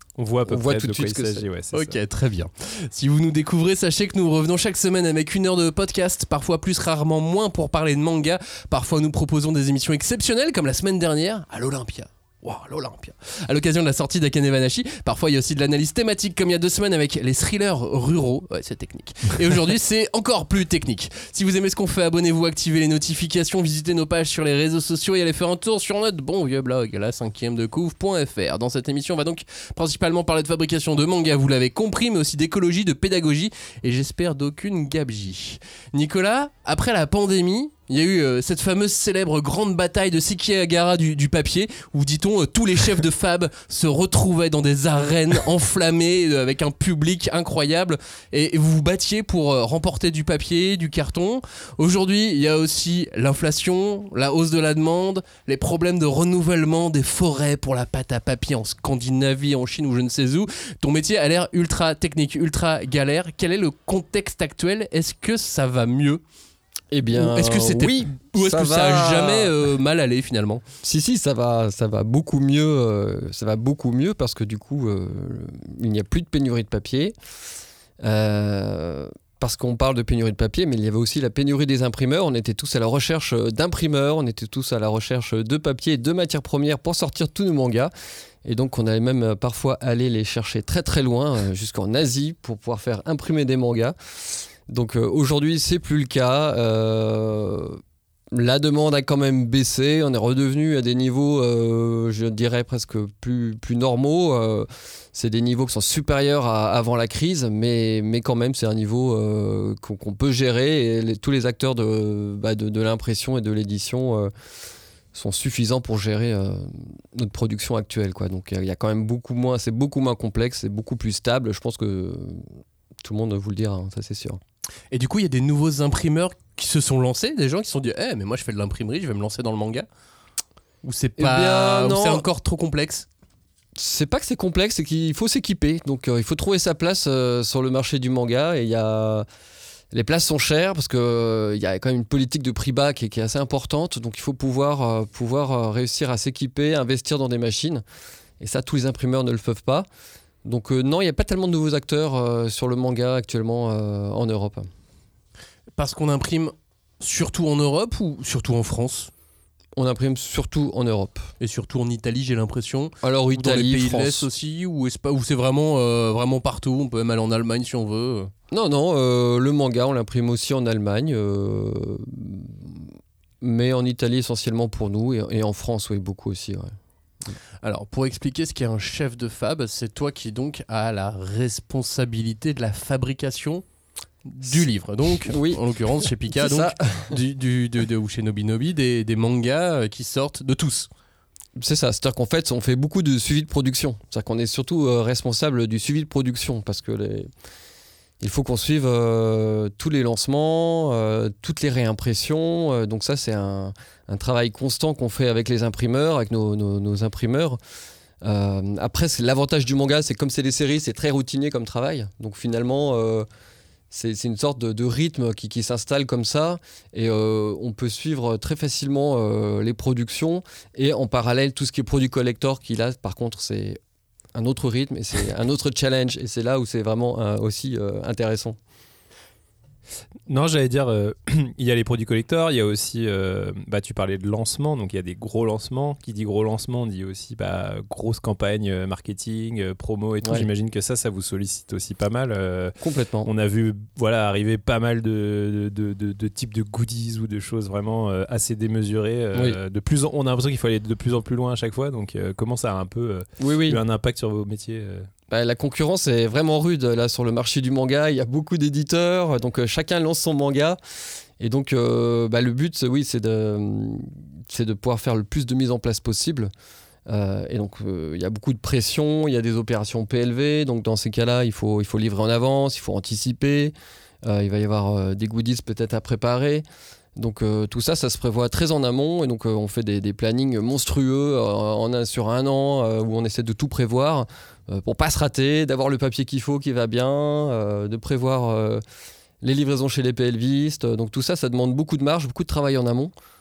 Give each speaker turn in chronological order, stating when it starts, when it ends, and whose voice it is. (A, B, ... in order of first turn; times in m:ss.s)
0:00.2-0:02.0 A
0:00.4-0:01.4 B
0:01.7-1:06.2 C
1:06.9-1:09.5 B
1:07.1-1:10.6 C
1:10.8-1:17.1 B
1:18.0-1:27.9 B
1:28.4-1:34.0 B
1:34.7-1:54.3 B
1:55.1-2:02.5 B
2:03.0-2:04.4 B
2:04.9-2:09.9 C
2:10.8-2:13.0 C
2:11.2-2:12.2 B
2:13.8-2:19.3 B
2:19.9-2:27.8 B
2:28.4-2:29.9 B
2:30.4-2:34.7 B
2:35.8-2:39.1 C
2:39.8-2:41.3 B
2:41.4-2:48.3 C
2:43.0-2:44.3 B
2:48.5-2:52.9 B
2:53.4-2:56.7 B
2:57.6-3:03.6 C
3:04.2-3:10.9 C
3:05.3-3:05.6 B
3:06.2-3:07.2 B
3:11.6-3:17.3 B
3:18.2-3:27.6 B
3:28.2-3:33.3 B
3:33.9-3:43.8 B
3:44.3-3:48.6 B
3:50.3-4:15.1 A
4:00.2-4:00.5 B
4:02.8-4:03.3 B
4:09.3-4:09.6 B
4:13.4-4:13.8 B
4:15.3-4:20.8 B
4:21.4-4:26.5 B
4:27.1-4:36.6 B
4:37.2-4:48.8 B
4:49.4-4:53.1 B